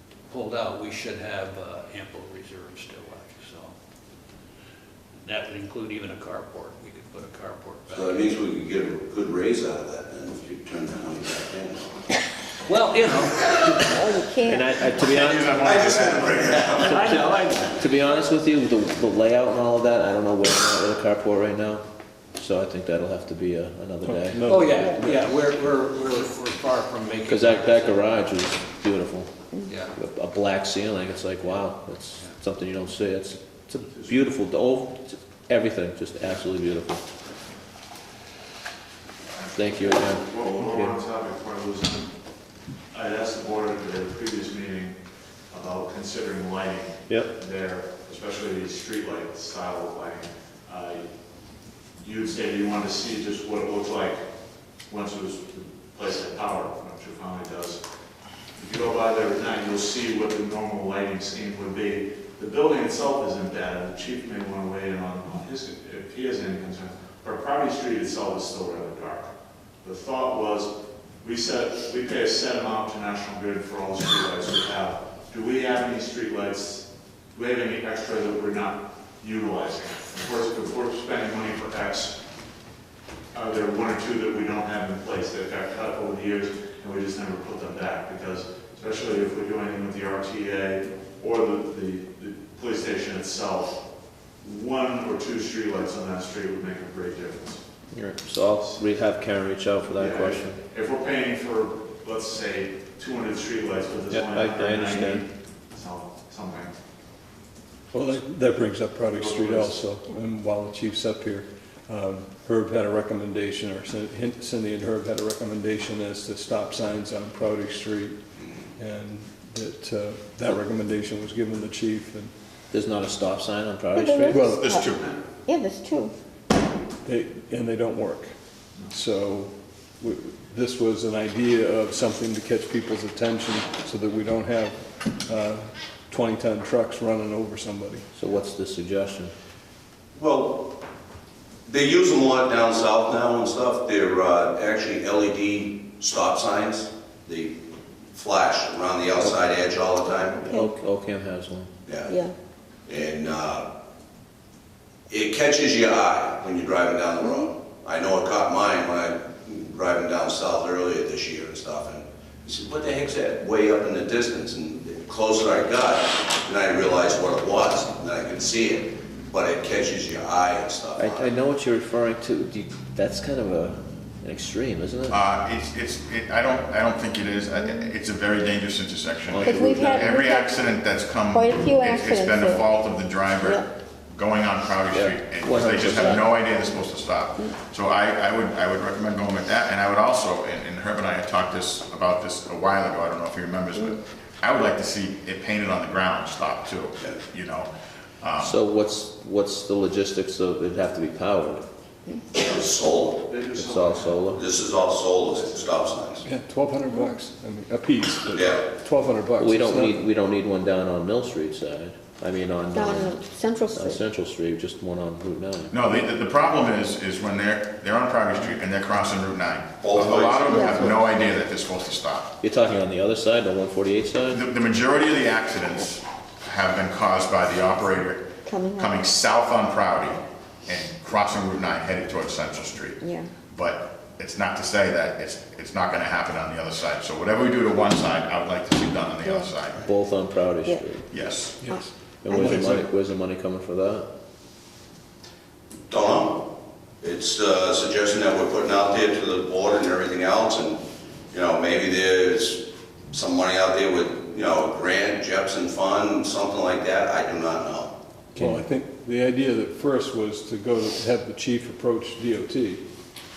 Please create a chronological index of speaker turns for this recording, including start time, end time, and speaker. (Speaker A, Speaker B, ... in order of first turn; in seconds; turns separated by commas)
Speaker A: 0.3-3.7, Speaker A: 5.2-8.3, Speaker B: 7.9-12.0, Speaker A: 12.6-14.0, Speaker C: 13.9-14.8, Speaker D: 14.4-15.6, Speaker E: 15.0-16.6, Speaker B: 15.6-17.0, Speaker D: 16.7-21.9, Speaker A: 16.8-17.9, Speaker D: 22.4-24.4, Speaker F: 24.1-25.3, Speaker A: 24.5-28.2, Speaker D: 27.3-29.3, Speaker A: 29.7-29.9, Speaker D: 29.9-37.0, Speaker D: 39.5-41.0, Speaker G: 39.6-42.1, Speaker G: 42.9-45.0, Speaker G: 45.5-51.1, Speaker D: 47.1-47.3, Speaker G: 52.0-54.2, Speaker G: 54.9-57.8, Speaker G: 58.6-69.3, Speaker G: 69.8-82.2, Speaker G: 83.3-93.8, Speaker G: 94.4-97.6, Speaker D: 97.9-100.6, Speaker G: 99.9-106.7, Speaker D: 104.1-105.3, Speaker F: 107.9-118.2, Speaker G: 109.0-109.8, Speaker F: 118.8-122.3, Speaker D: 122.7-124.5, Speaker C: 124.0-124.9, Speaker F: 124.3-124.7, Speaker E: 124.5-125.1, Speaker G: 124.9-125.2, Speaker C: 125.5-126.1, Speaker F: 127.0-128.3, Speaker F: 128.9-138.1, Speaker D: 138.2-139.3, Speaker B: 140.2-140.8, Speaker B: 141.7-147.6, Speaker B: 148.1-150.5, Speaker C: 150.4-150.7, Speaker D: 150.4-151.7, Speaker B: 151.9-152.2, Speaker C: 152.1-152.3, Speaker B: 152.9-153.7, Speaker B: 155.1-171.3, Speaker D: 171.0-175.2, Speaker E: 175.1-197.7, Speaker D: 179.3-180.1, Speaker C: 179.4-180.8, Speaker C: 181.3-182.7, Speaker C: 183.4-183.7, Speaker D: 184.9-186.4, Speaker E: 198.2-198.6, Speaker D: 198.4-201.6, Speaker B: 202.3-203.3, Speaker G: 203.3-205.7, Speaker D: 203.5-204.5, Speaker B: 204.3-206.2, Speaker F: 206.2-210.0, Speaker B: 208.3-208.7, Speaker D: 209.4-213.2, Speaker C: 212.7-214.0, Speaker D: 213.7-215.8, Speaker E: 215.7-222.3, Speaker B: 219.8-220.8, Speaker C: 220.4-220.9, Speaker D: 222.4-224.4, Speaker E: 224.3-239.9, Speaker C: 228.4-229.0, Speaker C: 233.0-233.3, Speaker C: 239.2-239.6, Speaker D: 239.9-241.1, Speaker E: 241.1-241.7, Speaker F: 241.6-242.8, Speaker D: 242.2-244.1, Speaker B: 245.9-257.9, Speaker F: 258.4-262.8